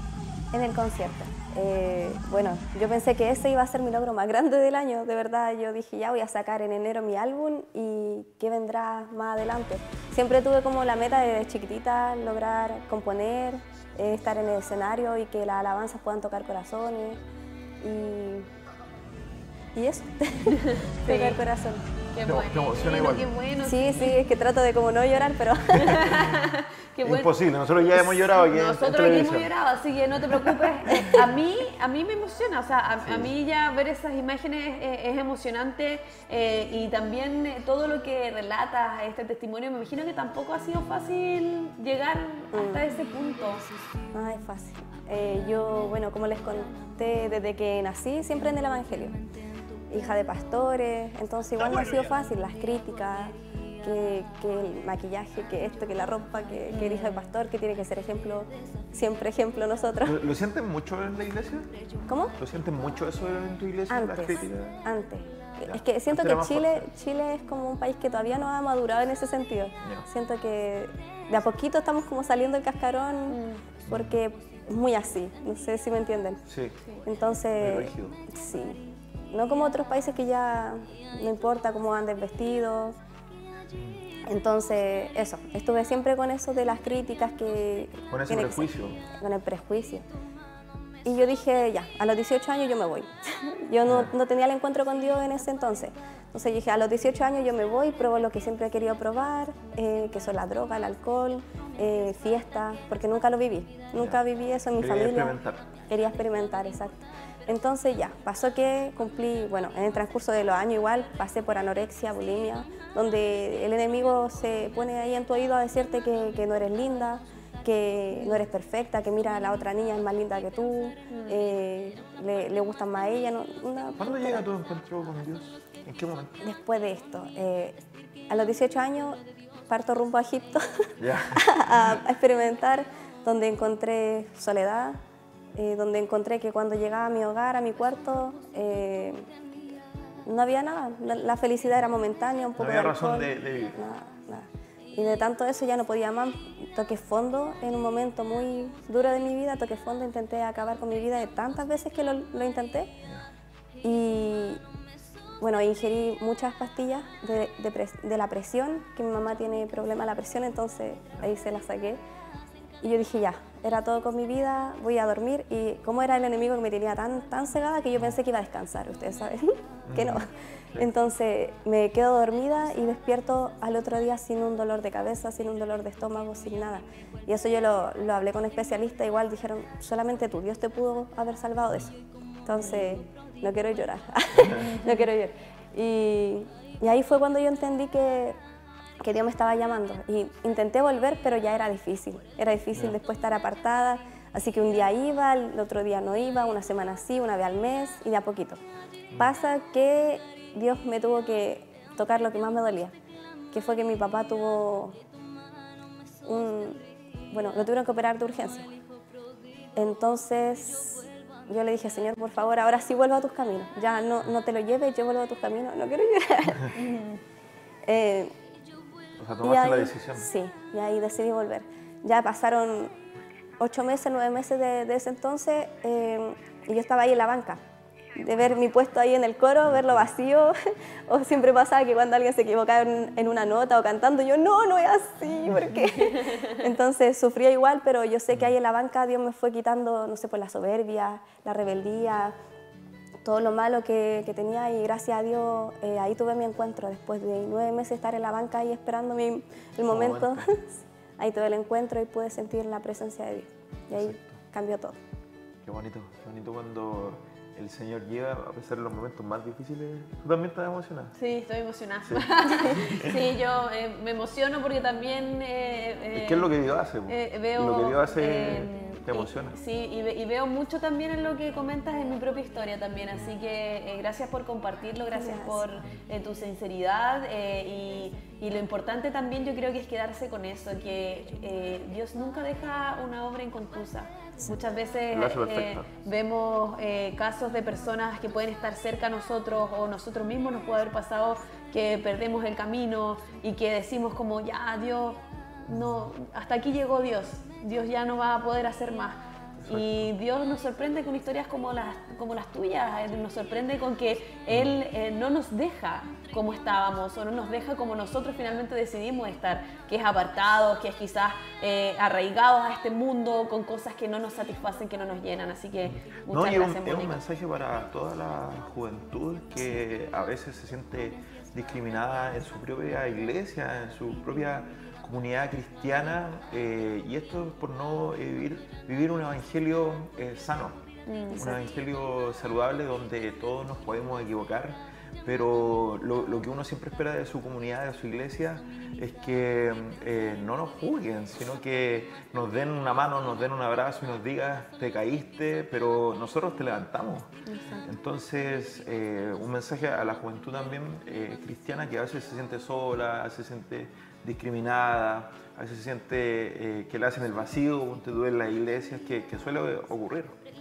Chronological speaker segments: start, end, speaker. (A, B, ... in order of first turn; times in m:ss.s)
0:00.5-0:17.2 A
0:17.8-0:18.5 A
0:19.7-0:21.8 A
0:20.5-0:21.4 B
0:22.1-0:24.2 B
0:22.2-0:23.3 C
0:23.6-0:26.0 A
0:25.7-0:27.3 B
0:26.0-0:26.4 C
0:27.0-0:29.5 C
0:27.9-0:43.6 B
0:30.3-0:31.2 C
0:33.0-0:33.3 C
0:42.5-0:42.8 A
0:44.1-0:49.2 A
0:49.9-1:00.2 A
0:51.6-0:52.0 C
0:56.7-0:57.2 B
1:00.0-1:01.7 C
1:02.1-1:02.4 A
1:02.3-1:04.8 C
1:03.9-1:16.4 A
1:05.6-1:06.9 C
1:13.3-1:13.6 B
1:13.9-1:14.2 C
1:16.5-1:16.8 C
1:17.0-1:23.0 A
1:17.6-1:18.2 C
1:24.2-1:30.0 A
1:28.1-1:29.0 C
1:31.0-1:45.4 A
1:33.8-1:34.1 C
1:44.8-1:45.7 C
1:45.9-2:04.4 A
2:01.1-2:01.4 B
2:04.0-2:06.4 C
2:06.4-2:10.7 A
2:11.0-2:11.5 C
2:11.3-2:15.0 A
2:15.6-2:19.3 A
2:20.2-2:32.9 A
2:22.6-2:23.8 C
2:33.8-2:34.6 A
2:35.4-2:42.0 A
2:42.8-3:01.9 A
2:49.9-2:50.9 C
3:02.4-3:08.4 A
3:04.6-3:04.9 B
3:09.0-3:18.6 A
3:19.2-3:22.9 A
3:23.5-3:25.0 A
3:26.2-3:28.7 A
3:29.7-3:36.8 A
3:36.7-3:37.2 B
3:37.8-3:38.3 A
3:39.2-3:40.3 C
3:39.4-3:42.9 A
3:43.6-3:47.6 A
3:48.2-4:02.3 A
3:55.9-3:56.6 B
4:03.2-4:15.0 A
4:09.9-4:10.5 C
4:13.9-4:14.4 C
4:15.6-4:21.1 C
4:21.2-4:26.5 B
4:22.0-4:23.3 C
4:26.1-4:29.6 C
4:27.1-5:17.2 B
4:35.1-4:35.6 A
4:45.1-4:45.9 C
4:55.7-4:56.1 C
4:59.6-5:00.1 C
5:04.5-5:04.8 C
5:15.8-5:30.8 C
5:31.1-5:31.6 B
5:31.3-5:47.3 C
5:47.5-5:47.9 B
5:47.8-6:00.4 C